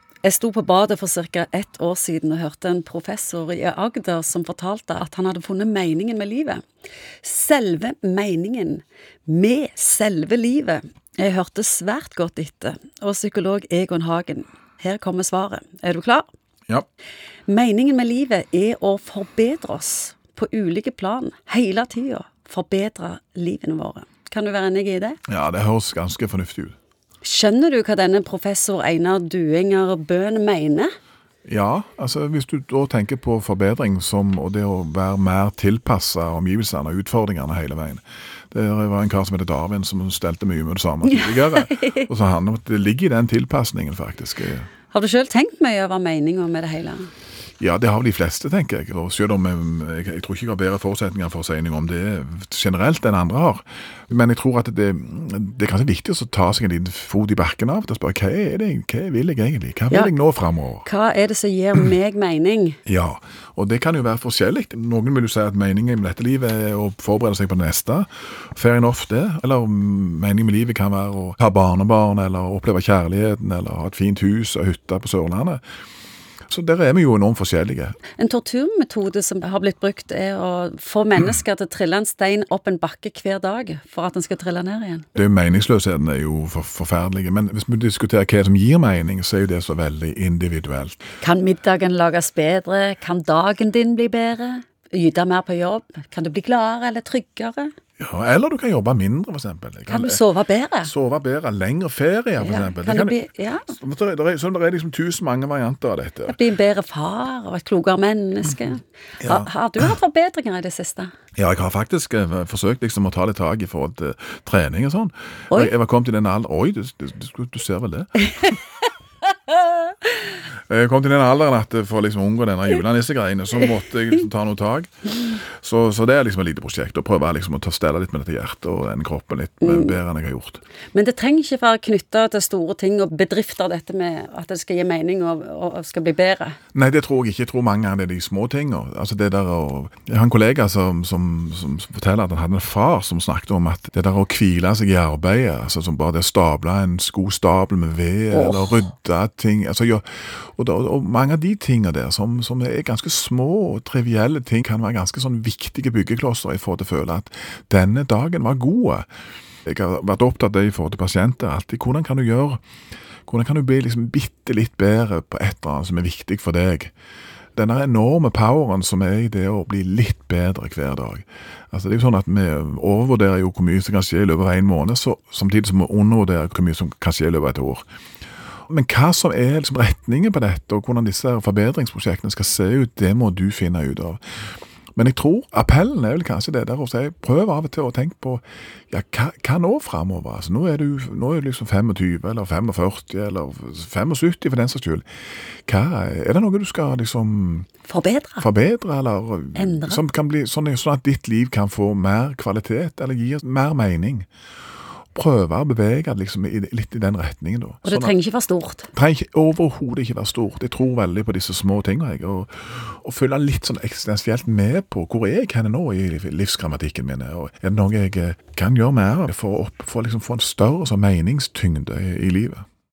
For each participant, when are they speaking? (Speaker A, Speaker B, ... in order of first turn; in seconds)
Speaker A: 0.2-6.6, 7.2-16.2, 17.5-25.2, 27.2-30.9, 41.0-42.0, 44.9-47.1, 60.8-62.8, 78.2-85.0, 91.2-97.7, 99.9-100.9, 102.4-103.7, 106.3-111.1, 129.6-130.0, 130.9-136.6, 148.3-148.8, 197.8-198.4, 199.5-200.0, 207.8-208.9
Speaker B: 25.3-26.8, 31.4-44.7, 47.6-60.9, 62.9-75.6, 76.5-78.0, 85.2-91.0, 98.0-100.2, 100.8-103.2, 103.7-106.4, 109.2-109.9, 111.4-118.5, 120.7-130.6, 136.7-159.1, 159.7-162.6, 163.2-166.9, 167.6-177.8, 178.7-184.2, 184.9-195.0, 195.7-197.7, 198.4-204.3, 205.1-208.1, 208.9-222.6